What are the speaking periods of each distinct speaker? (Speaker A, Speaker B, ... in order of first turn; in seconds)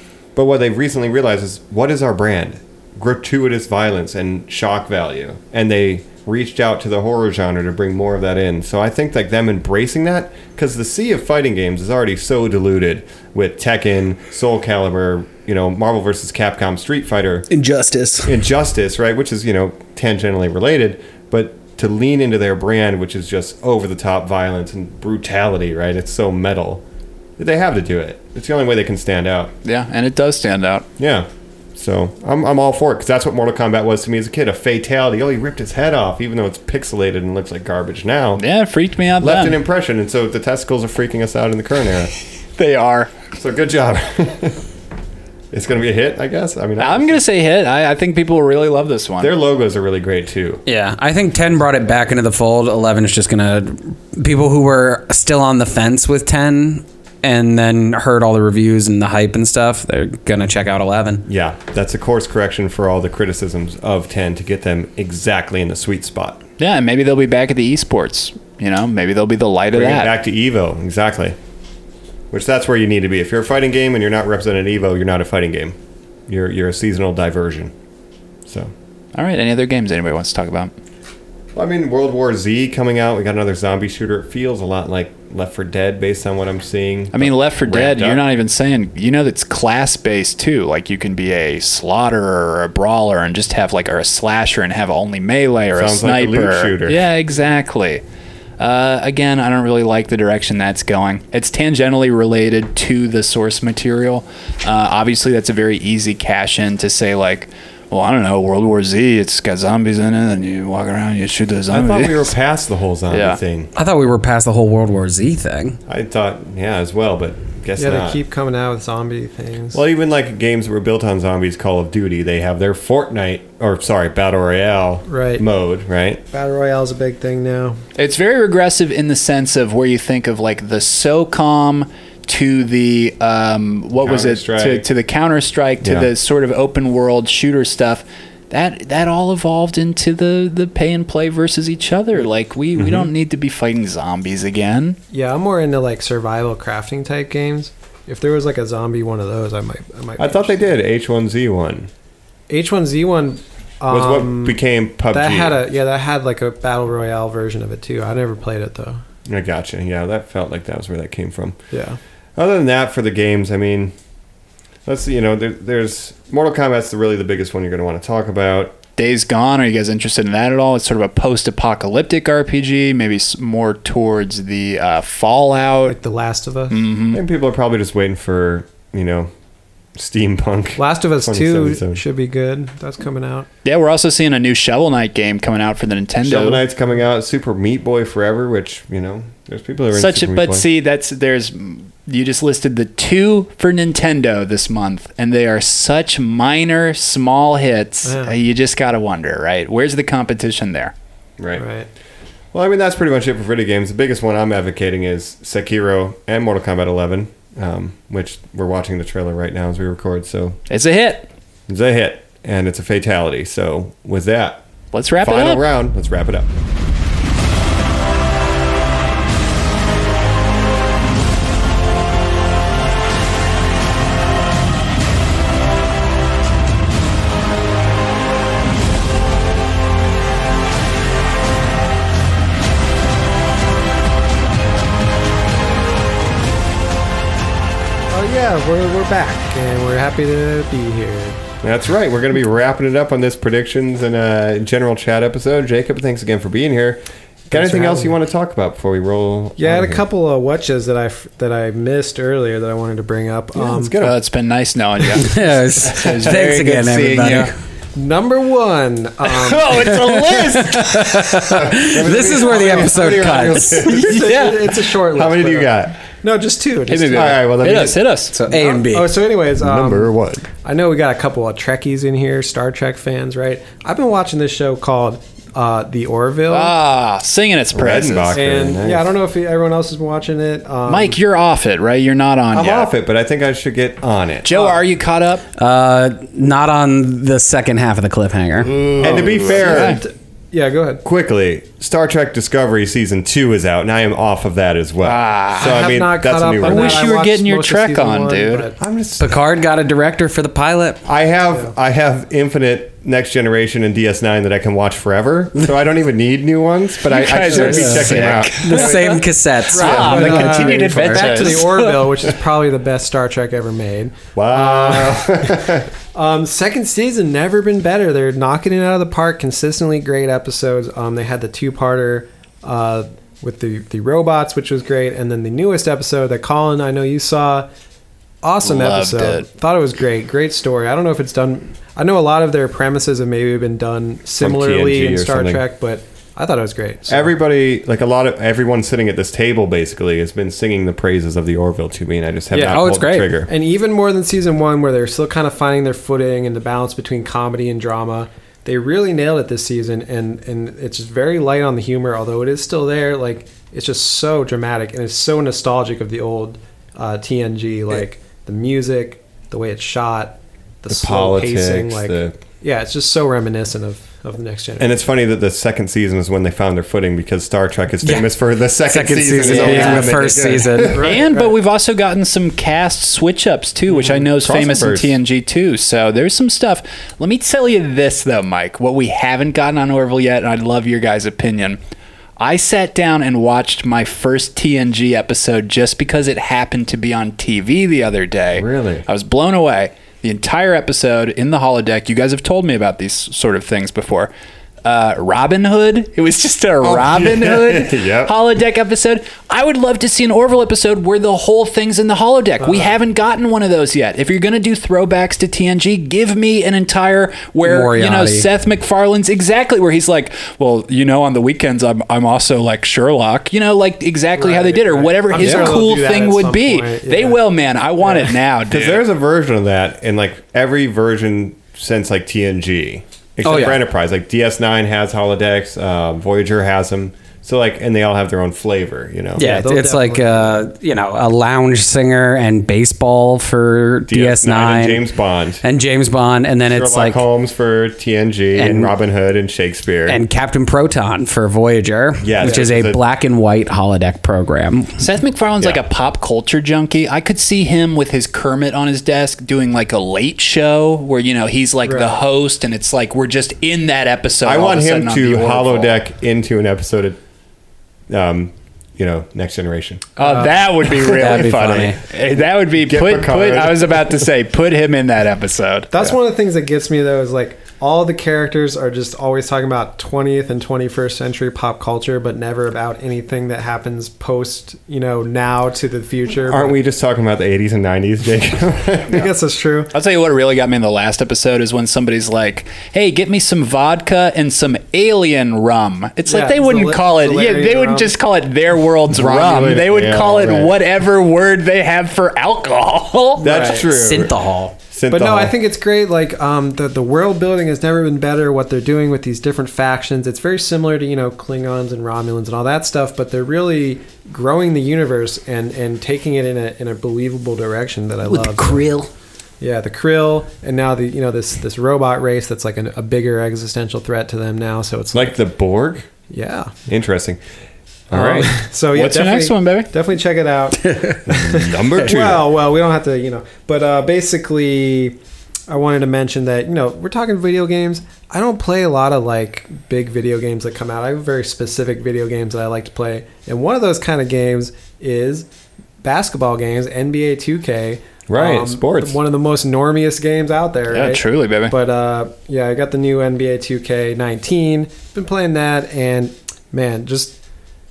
Speaker A: 0.3-17.5, 18.2-26.8, 27.4-29.5, 31.0-38.4, 39.2-42.1, 43.4-44.6, 45.5-47.2, 49.2-50.6, 61.3-66.4, 69.7-71.4, 72.3-75.8, 76.3-77.7, 78.5-78.7, 81.5-88.2, 95.7-97.1, 111.7-113.7, 115.9-118.2, 119.7-126.2, 134.0-134.9, 135.8-136.1, 142.8-143.1, 150.2-151.9, 153.9-155.6, 159.3-161.6, 162.4-163.9, 164.9-168.8, 177.1-179.3, 179.9-182.0, 186.2-190.7, 201.4-201.7, 202.5-210.6, 211.7-214.7, 215.2-216.5, 241.6-250.1, 253.5-254.2, 261.4-264.5, 265.1-266.0, 267.1-268.1, 269.6-270.5, 277.7-279.1, 282.5-284.5, 289.0-290.0, 291.0-297.1, 298.8-299.4, 301.1-309.0, 309.8-310.3, 314.4-315.9, 334.4-335.6, 337.1-343.5, 360.9-362.4, 364.8-371.2, 373.9-375.2, 388.5-389.1, 396.8-398.3, 418.7-429.6, 434.1-435.6, 436.6-440.2, 442.2-443.0, 454.4-457.2, 458.1-460.2, 461.2-461.9, 462.8-464.3, 476.4-479.3, 489.1-490.8, 493.4-495.6, 515.1-516.1, 516.9-517.4, 518.1-518.6, 521.3-522.5, 538.3-539.2
Speaker B: 17.5-18.4, 50.7-61.3, 113.8-115.8, 255.2-257.5, 260.3-263.9, 268.3-269.2, 285.6-288.7, 299.2-301.0, 307.5-311.3, 342.6-343.3, 368.0-368.3, 368.8-371.0, 407.6-408.5, 415.4-415.7, 423.4-423.8, 429.4-435.0, 435.6-437.2, 438.6-438.9, 440.1-444.9, 460.9-462.0, 493.9-494.7, 508.3-509.1, 520.9-521.2
Speaker C: 29.6-30.9, 38.4-39.6, 42.6-43.1, 46.8-49.4, 66.6-70.1, 79.2-80.7, 87.1-98.0, 98.6-112.3, 113.1-113.4, 128.0-145.0, 169.0-176.0, 176.7-177.2, 183.7-186.6, 189.9-200.9, 210.7-211.3, 214.9-215.6, 254.0-257.5, 259.2-261.5, 263.9-264.8, 266.9-268.4, 276.5-278.4, 280.9-282.9, 284.4-285.4, 288.6-290.0, 295.0-296.0, 296.6-298.7, 307.1-309.2, 309.7-312.2, 328.6-329.5, 369.5-370.1, 371.0-381.8, 382.4-394.3, 394.9-419.0, 445.0-456.0, 460.2-466.1, 479.9-493.6, 508.6-509.0, 518.9-519.9, 540.9-541.8
Speaker D: 117.8-119.8, 125.1-125.5, 126.3-127.8, 145.1-150.6, 152.5-154.6, 155.1-159.0, 161.7-162.0, 175.9-176.9, 180.8-183.5, 198.1-198.3, 201.6-201.9, 238.1-241.4, 247.5-248.2, 249.6-253.9, 257.9-259.9, 262.5-263.3, 263.9-267.3, 268.5-276.8, 278.3-281.2, 284.5-284.8, 289.0-291.0, 295.6-298.8, 309.7-327.7, 328.4-337.3, 342.5-342.8, 343.5-365.0, 369.5-370.1, 370.9-371.6, 402.6-403.0, 414.4-417.4, 429.4-430.6, 442.4-442.7, 451.9-452.2, 460.2-460.6, 465.9-476.8, 479.1-479.9, 486.3-488.1, 493.4-493.9, 495.1-508.9, 509.6-515.4, 516.3-516.7, 518.1-535.5, 536.0-547.4